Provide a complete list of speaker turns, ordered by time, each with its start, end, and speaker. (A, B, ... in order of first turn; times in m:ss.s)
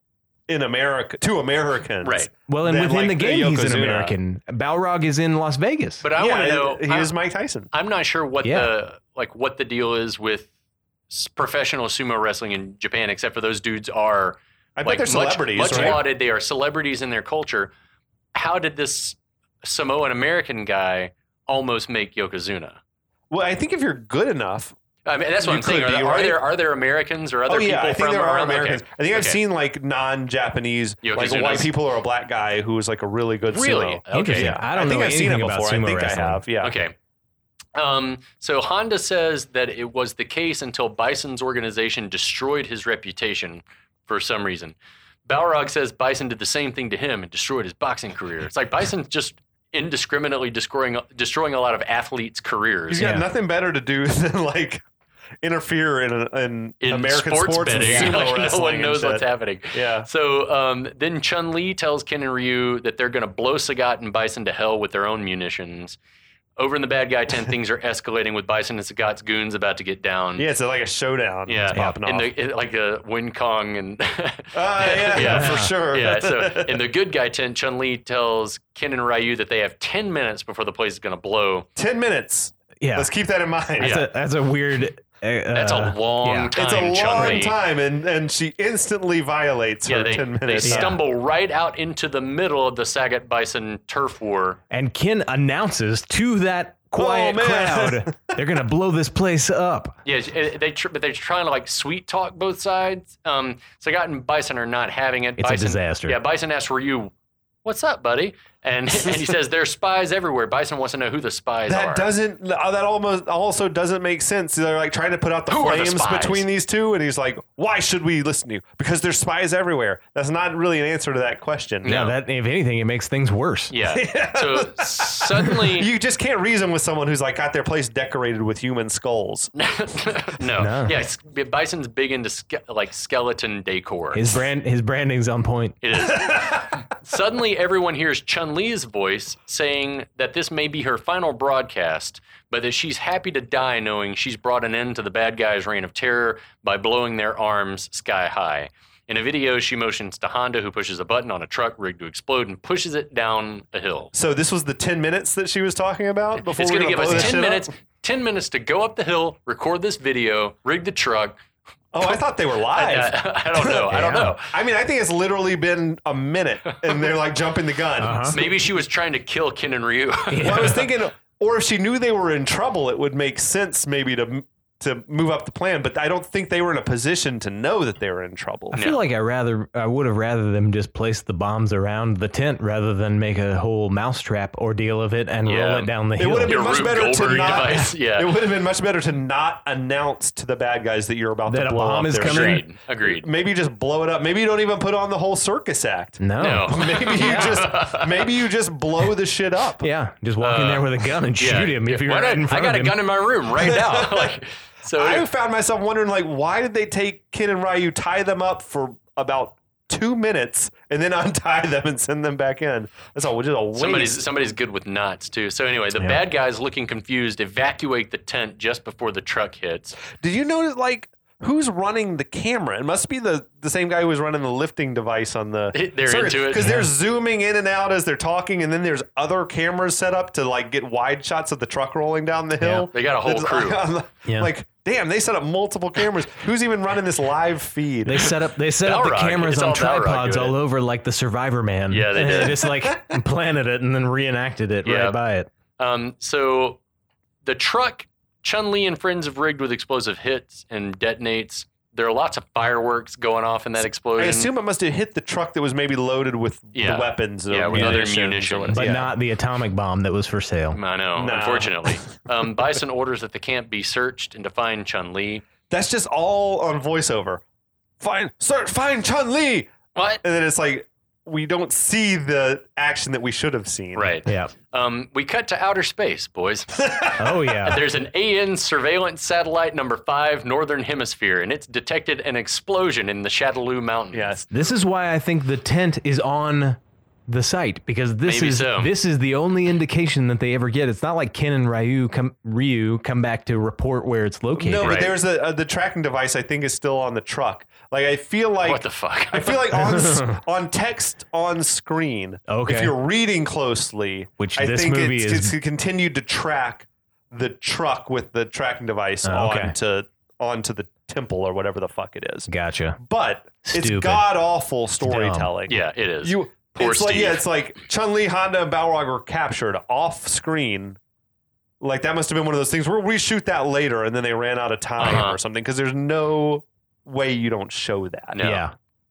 0:00.5-0:04.2 A
0:02.0-0:02.3 B
0:02.5-0:06.0 C
0:06.0-0:07.1 B
0:06.2-0:07.7 A
0:07.7-0:10.5 B
0:08.4-0:08.7 C
0:11.1-0:17.7 B
0:14.8-0:16.0 A
0:18.3-0:22.8 B
0:23.3-0:24.7 A
0:25.0-0:29.4 B
0:25.4-0:26.4 A
0:27.5-0:36.7 A
0:31.0-0:31.7 B
0:33.5-0:34.6 B
0:34.1-0:36.4 C
0:36.6-0:36.9 B
0:37.7-0:44.7 B
0:45.2-0:53.0 B
0:52.9-0:54.8 A
0:53.0-0:53.2 C
0:55.4-1:00.1 A
0:56.8-1:06.0 B
0:57.7-0:58.3 C
1:06.6-1:10.4 B
1:10.4-1:12.3 A
1:11.5-1:21.7 B
1:14.5-1:16.8 A
1:15.2-1:15.7 C
1:21.8-1:24.0 A
1:22.8-1:23.1 C
1:23.8-1:26.5 C
1:23.8-1:24.1 B
1:25.5-1:27.6 B
1:26.6-1:31.0 A
1:29.9-1:34.6 B
1:30.6-1:31.0 C
1:34.7-1:40.0 C
1:37.0-1:38.4 A
1:40.0-1:47.1 B
1:45.4-1:46.2 C
1:47.6-1:52.1 B
1:51.7-2:02.0 A
1:55.5-1:56.4 B
2:01.8-2:02.1 B
2:01.8-2:03.7 C
2:03.7-2:05.9 B
2:03.9-2:09.5 A
2:09.6-2:14.4 B
2:10.6-2:11.0 C
2:14.1-2:15.8 C
2:15.8-2:34.1 B
2:16.1-2:16.7 A
2:34.1-2:37.7 A
2:36.4-2:41.4 B
2:37.1-2:37.4 C
2:41.9-2:48.6 A
2:42.0-2:44.5 B
2:43.9-2:44.3 C
2:48.0-2:48.4 C
2:48.3-2:50.8 B
2:50.3-2:50.9 C
2:50.4-2:58.8 A
2:58.7-3:06.6 C
2:58.7-2:59.0 B
3:05.4-3:05.9 B
3:06.2-3:19.8 A
3:06.5-3:08.3 B
3:11.5-3:12.6 C
3:12.2-3:13.2 B
3:16.2-3:17.6 C
3:16.4-3:18.3 B
3:19.8-3:23.0 C
3:20.4-3:25.2 B
3:23.6-3:24.4 A
3:24.9-3:34.3 A
3:33.7-3:40.0 B
3:40.1-3:58.2 A
3:45.7-3:46.7 B
3:46.6-3:46.9 C
3:52.6-3:52.9 C
3:52.9-3:53.8 B
3:54.2-3:54.5 C
3:58.0-4:05.5 C
3:58.2-4:00.6 B
4:01.9-4:02.6 B
4:04.8-4:05.2 B
4:05.8-4:06.8 B
4:07.4-4:14.5 B
4:14.2-4:19.1 A
4:16.7-4:18.9 B
4:17.7-4:18.0 C
4:18.7-4:20.8 C
4:20.7-4:25.4 B
4:21.1-4:22.1 A
4:25.7-4:27.4 A
4:28.0-4:29.7 A
4:30.0-4:30.2 B
4:30.2-4:34.1 A
4:33.9-4:44.4 B
4:34.2-4:34.5 C
4:36.7-4:37.3 A
4:37.2-4:37.8 C
4:44.1-4:44.5 A
4:44.5-4:55.0 C
4:48.2-4:48.9 B
4:54.6-5:12.5 A
4:54.8-4:55.1 B
4:58.6-4:59.6 B
4:59.7-5:00.4 C
5:02.5-5:02.9 C
5:04.4-5:05.5 C
5:09.2-5:09.7 C
5:12.5-5:13.0 C
5:13.0-5:21.0 A
5:13.6-5:14.2 C
5:15.0-5:15.5 C
5:15.7-5:17.4 B
5:21.8-5:28.4 A
5:25.0-5:25.4 B
5:28.3-5:28.7 B
5:28.4-5:28.7 C